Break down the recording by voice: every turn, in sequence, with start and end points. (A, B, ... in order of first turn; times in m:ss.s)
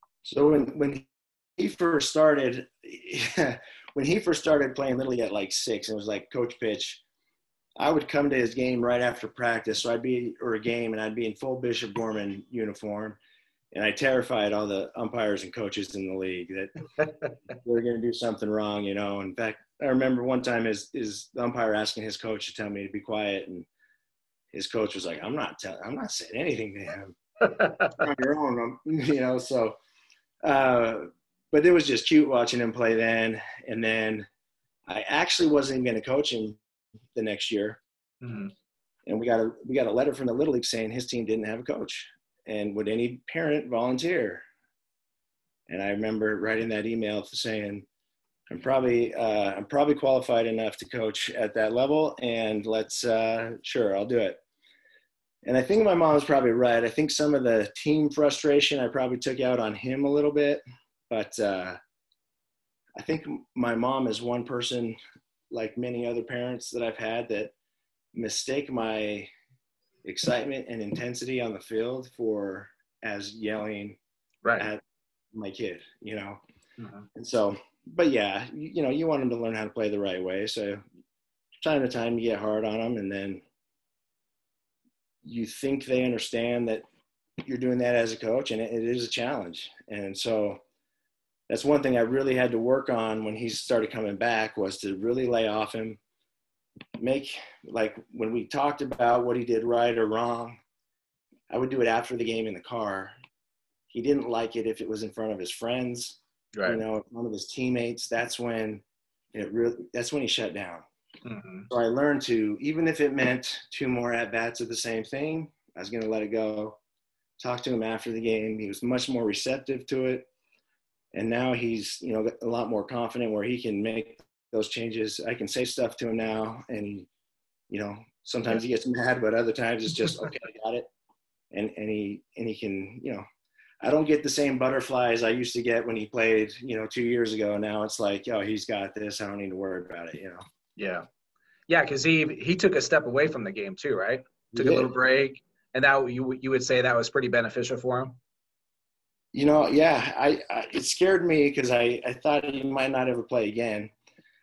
0:00.2-0:07.0 A
0:07.8-0:13.2 A
0:13.7-0:16.7 A
0:17.1-0:17.3 B
0:17.6-0:23.7 A
0:24.5-0:29.8 A
0:27.4-0:28.0 B
0:30.4-0:34.3 A
0:34.9-0:36.6 A
0:37.1-0:37.8 A
0:38.2-0:38.5 B
0:39.1-0:44.4 A
0:45.7-0:47.9 A
0:48.5-0:54.4 A
0:55.4-1:01.8 A
1:03.0-1:05.0 A
1:05.5-1:07.5 A
1:08.1-1:09.3 A
1:10.0-1:14.0 A
1:14.4-1:14.7 B
1:15.3-1:16.4 A
1:16.8-1:17.1 B
1:17.1-1:20.8 A
1:21.6-1:23.4 A
1:25.2-1:26.8 A
1:27.4-1:30.6 A
1:31.5-1:36.0 A
1:37.0-1:40.6 A
1:41.5-1:43.1 A
1:43.9-1:48.8 A
1:46.6-1:46.8 B
1:49.3-1:50.8 A
1:51.2-1:51.7 B
1:51.7-1:56.8 A
1:57.4-2:00.3 A
2:01.1-2:07.1 A
2:07.7-2:10.9 A
2:11.5-2:13.2 A
2:13.8-2:20.4 A
2:20.8-2:21.1 B
2:21.7-2:28.2 B
2:24.5-2:24.9 A
2:29.3-2:33.9 A